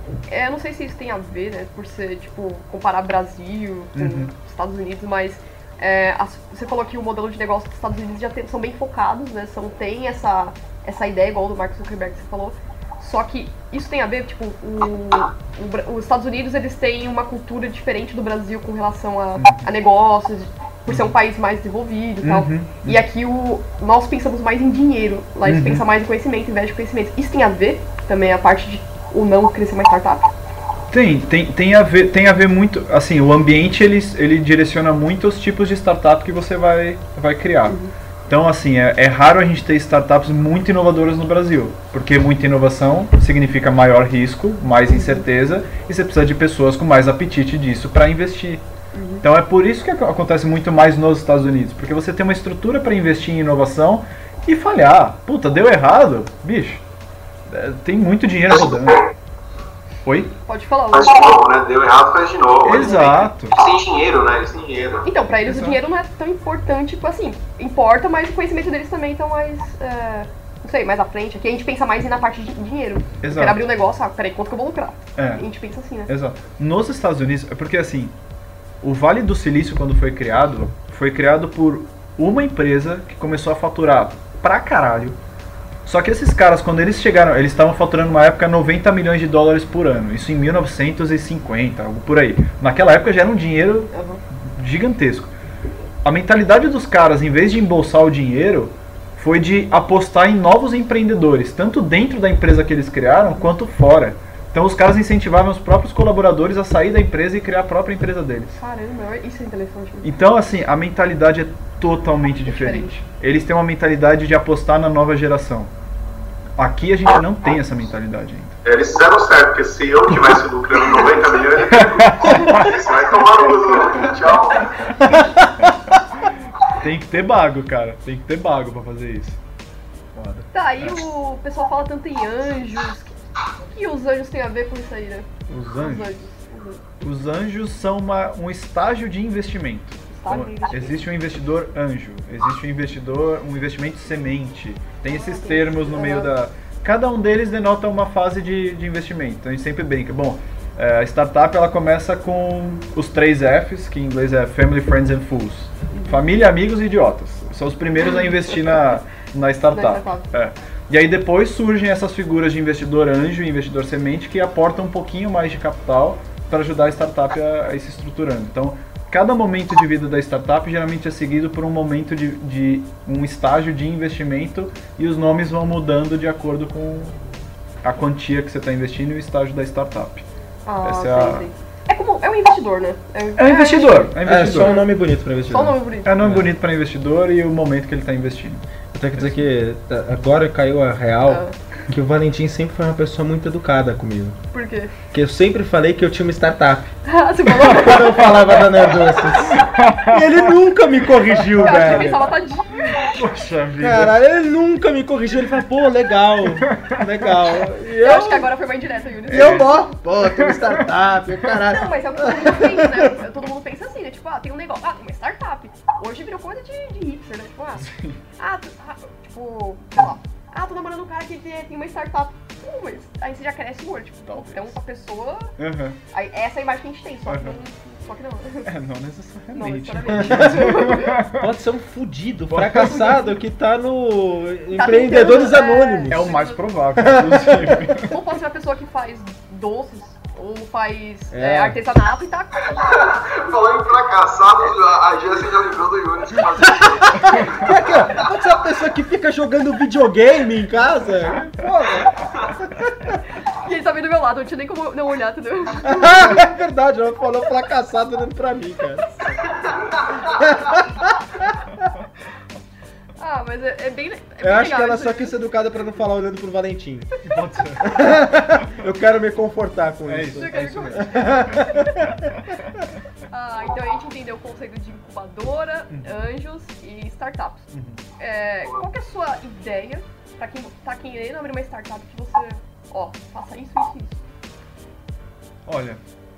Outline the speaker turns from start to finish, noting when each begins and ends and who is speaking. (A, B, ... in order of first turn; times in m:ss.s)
0:00.3-0:30.3 A
0:03.9-0:04.3 B
0:19.4-0:19.7 B
0:20.9-0:21.1 B
0:22.2-0:23.0 B
0:25.4-0:25.8 B
0:30.9-0:48.6 B
0:37.7-0:37.9 A
0:44.9-0:45.2 A
0:48.9-0:49.2 A
0:49.2-0:56.8 B
0:57.5-0:59.0 B
0:58.5-0:59.1 C
1:00.0-1:00.3 B
1:00.5-1:01.4 A
1:00.9-1:05.1 C
1:02.6-1:03.6 B
1:02.8-1:03.1 A
1:05.0-1:16.1 A
1:05.4-1:05.8 B
1:13.2-1:13.6 B
1:15.2-1:15.5 B
1:16.1-1:18.1 B
1:18.8-1:25.2 B
1:25.8-1:35.3 B
1:33.9-1:34.2 A
1:36.0-1:48.6 B
1:48.6-1:50.1 A
1:50.0-1:55.7 B
1:52.4-1:53.0 A
1:56.6-1:58.6 B
1:58.6-2:05.0 C
2:00.8-2:01.6 A
2:01.7-2:02.8 B
2:02.2-2:02.7 A
2:05.0-2:09.4 B
2:10.2-2:11.0 B
2:10.5-2:13.2 A
2:13.7-2:16.8 A
2:15.5-2:16.1 B
2:17.0-2:57.2 B
2:20.1-2:21.0 A
2:25.1-2:26.3 A
2:35.9-2:36.2 A
2:38.0-2:39.0 A
2:39.7-2:40.3 A
2:57.8-3:00.2 B
3:00.6-3:04.9 A
3:00.8-3:01.5 B
3:03.4-3:04.8 B
3:04.2-3:06.5 D
3:05.5-3:06.2 A
3:06.0-3:08.6 B
3:08.9-3:14.4 D
3:09.2-3:09.4 B
3:11.3-3:11.6 A
3:14.5-3:14.9 A
3:15.1-3:16.9 D
3:17.0-3:18.6 A
3:17.6-3:22.4 D
3:19.4-3:20.4 B
3:21.3-3:22.2 B
3:21.6-3:23.2 A
3:22.8-3:24.2 B
3:23.8-3:28.5 D
3:26.5-3:27.6 B
3:27.8-3:29.9 A
3:29.3-3:30.9 B
3:29.3-3:33.1 D
3:31.6-3:45.5 A
3:37.8-3:38.2 B
3:44.3-3:44.8 B
3:45.6-3:46.0 B
3:46.1-3:48.7 A
3:47.3-3:47.6 B
3:48.6-3:51.5 B
3:49.5-3:51.2 A
3:50.2-3:56.4 D
3:52.5-3:53.3 B
3:54.7-3:56.6 A
3:56.1-3:58.2 B
3:57.0-3:57.8 D
3:58.1-4:03.4 A
4:01.3-4:01.8 D
4:02.7-4:08.2 C
4:07.1-4:13.2 D
4:13.4-4:16.4 A
4:15.8-4:19.4 D
4:20.2-4:21.2 D
4:23.2-4:25.4 A
4:24.4-4:27.1 D
4:27.2-4:28.3 B
4:27.8-4:32.2 D
4:30.1-4:32.9 B
4:30.4-4:32.1 A
4:33.3-4:44.2 A
4:35.9-4:36.2 B
4:37.7-4:38.0 B
4:45.6-4:46.0 B